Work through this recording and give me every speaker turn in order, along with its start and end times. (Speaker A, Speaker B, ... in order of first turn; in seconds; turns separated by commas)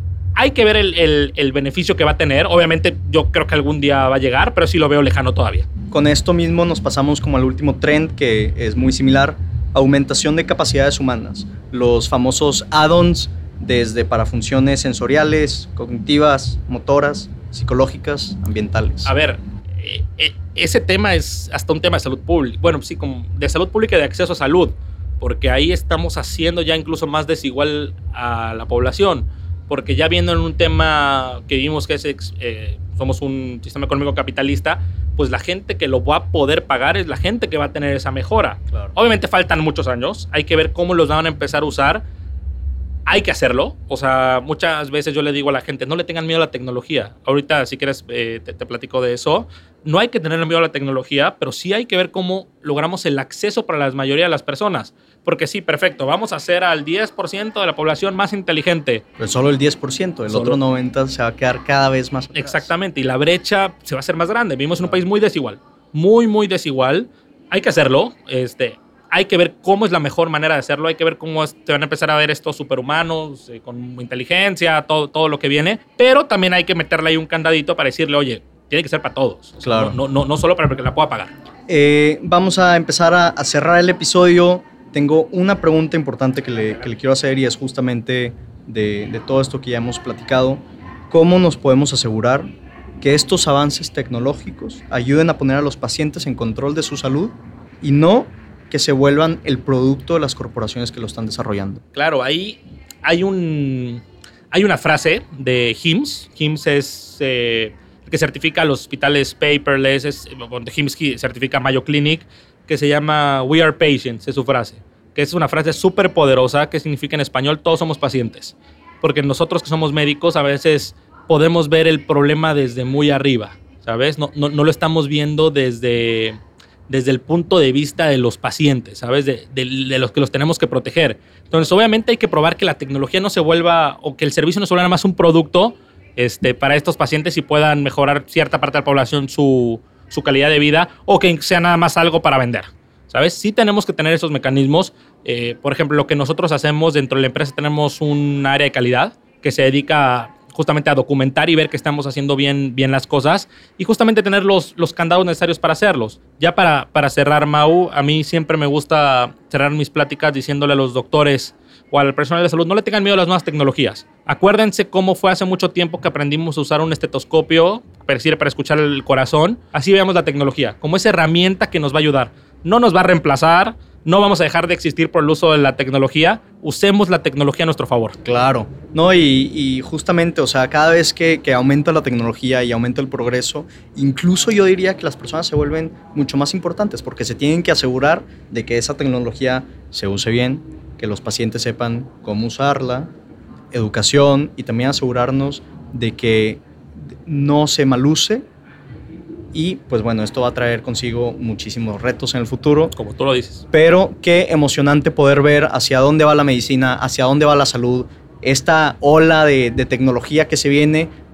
Speaker A: 0.3-5.7, Speaker B: 5.9-19.1, Speaker A: 19.0-42.0, Speaker A: 43.0-59.0, Speaker B: 59.2-62.7, Speaker A: 60.3-60.6, Speaker A: 62.3-81.3, Speaker B: 79.6-80.0, Speaker B: 81.7-92.5, Speaker A: 86.5-86.9, Speaker B: 93.0-101.8, Speaker A: 101.9-178.2, Speaker B: 178.2-193.1, Speaker B: 193.7-198.4, Speaker B: 199.5-202.9, Speaker A: 202.9-203.7, Speaker B: 203.7-211.1